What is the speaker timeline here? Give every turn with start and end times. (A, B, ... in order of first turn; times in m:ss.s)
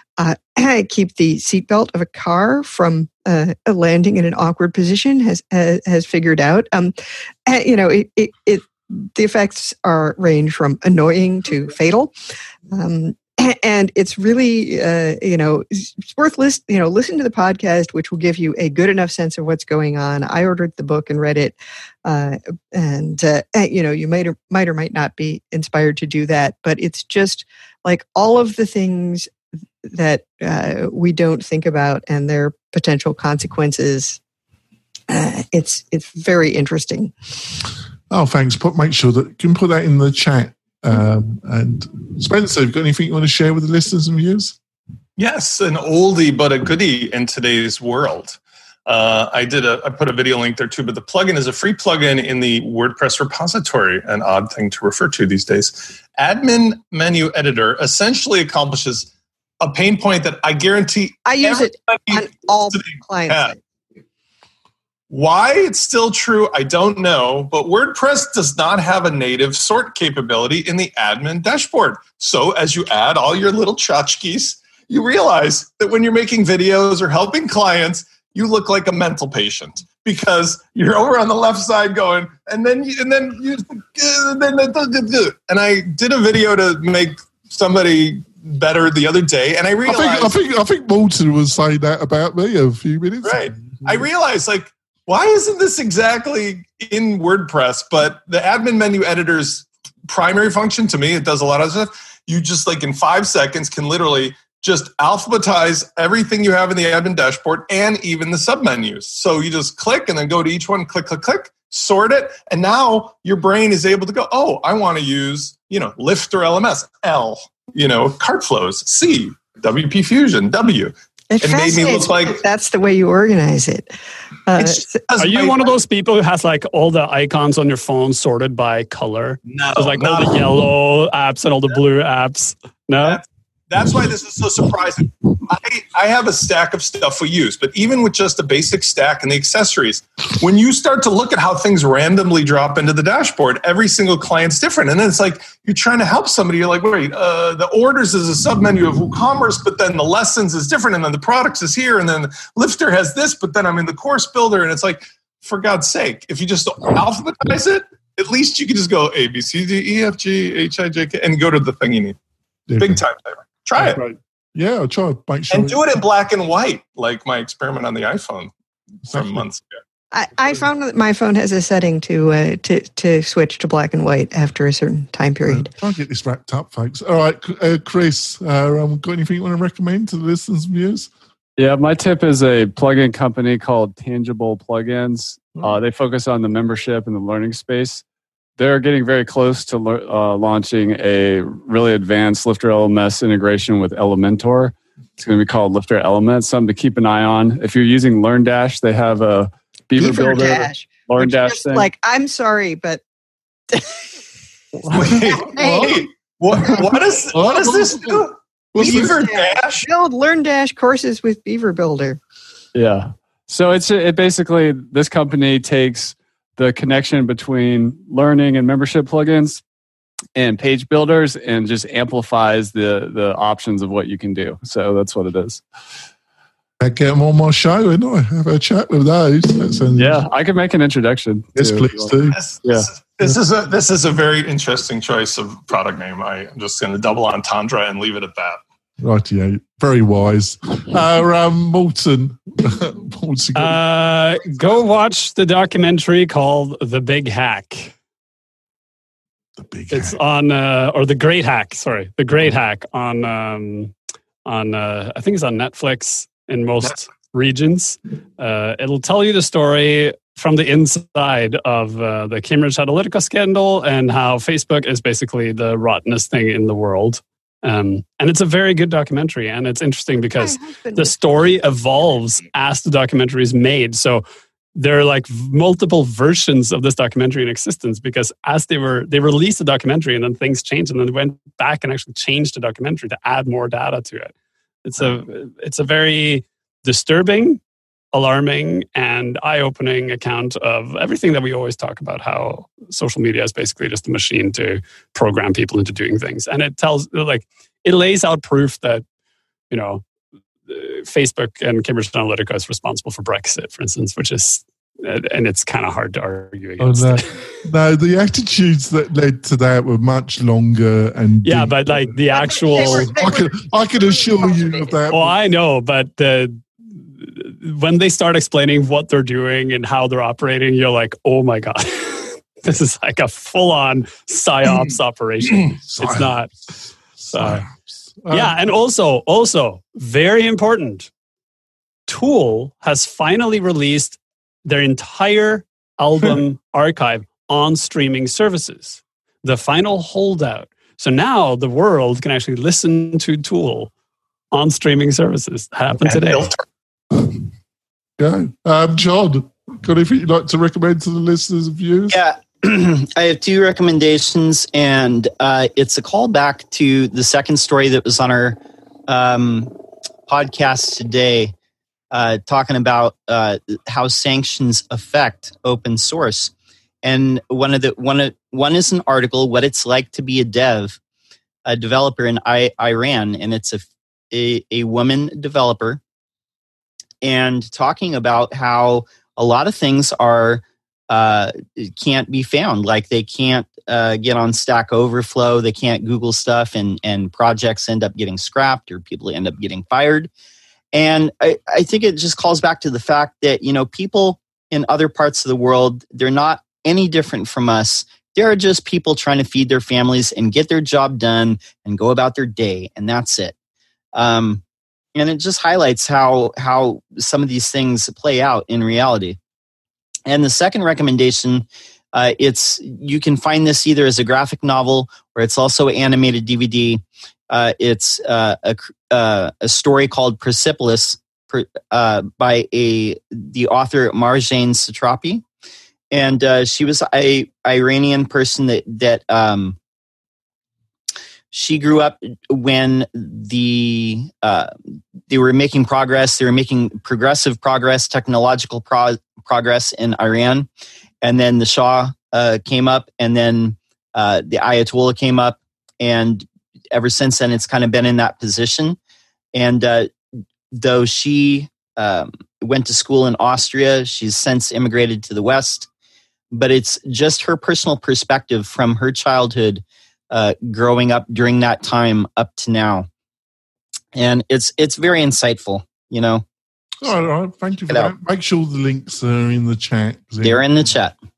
0:00.2-0:07.0 A
0:07.5-0:12.1 A
0:12.7-0:29.3 A
0:29.8-0:34.2 A
0:35.1-0:37.1 A
0:38.1-0:44.6 B
0:45.2-0:59.1 C
0:59.6-1:03.5 C
1:01.2-1:03.6 A
1:05.1-1:30.3 C
1:29.8-1:34.0 B
1:33.2-2:02.4 C
2:01.3-2:03.9 A
2:04.5-2:05.0 A
2:04.6-2:05.8 C
2:05.2-2:13.2 D
2:09.5-2:10.4 C
2:13.0-2:42.2 C
2:42.7-2:43.0 B
2:42.8-2:44.0 C
2:43.8-2:45.8 B
2:45.5-2:48.5 C
2:49.1-2:49.7 C
2:49.1-2:49.4 B
2:50.1-2:55.7 A
2:55.5-3:01.1 B
3:01.6-3:08.0 E
3:08.6-3:21.9 E
3:20.0-3:23.0 A
3:23.7-3:24.2 A
3:24.9-3:26.1 A
3:24.9-3:29.9 C
3:25.6-3:26.1 B
3:26.6-3:29.2 B
3:28.8-3:32.2 A
3:32.8-3:39.6 E
3:40.4-3:45.6 E
3:46.8-3:50.2 B
3:50.0-3:52.9 E
3:51.6-3:52.4 B
3:52.4-3:58.6 C
3:59.0-4:03.8 B
4:03.6-4:07.9 D
4:09.6-4:10.2 B
4:09.9-4:13.9 D
4:14.5-4:34.2 D
4:30.4-4:32.5 A
4:34.8-4:44.3 D
4:44.8-4:47.6 D
4:48.1-4:59.0 D
4:59.7-5:00.0 D
5:00.7-5:07.5 D
5:06.8-5:12.2 B
5:11.4-5:13.1 D
5:12.3-5:14.9 A
5:12.7-5:15.4 B
5:15.1-5:26.5 D
5:25.9-5:26.3 B
5:27.2-5:28.6 B
5:27.3-5:27.6 D
5:28.3-5:31.1 D
5:32.1-5:43.9 D
5:44.5-5:46.5 D
5:46.0-5:46.6 C
5:48.2-5:52.2 B
5:52.1-6:01.5 F
6:02.1-6:06.5 F
6:07.0-6:11.0 F
6:11.7-6:16.0 F
6:17.2-6:30.3 F
6:30.9-6:43.5 F
6:44.1-6:44.6 F
6:45.2-6:49.4 F
6:50.3-7:05.4 F
7:06.1-7:09.8 F
7:11.5-7:14.7 F
7:15.3-7:20.7 F
7:21.2-7:29.0 F
7:29.5-7:30.1 F
7:30.7-7:35.9 F
7:36.5-7:43.1 F
7:44.2-7:46.4 F
7:47.0-7:50.6 B
7:50.4-7:51.1 F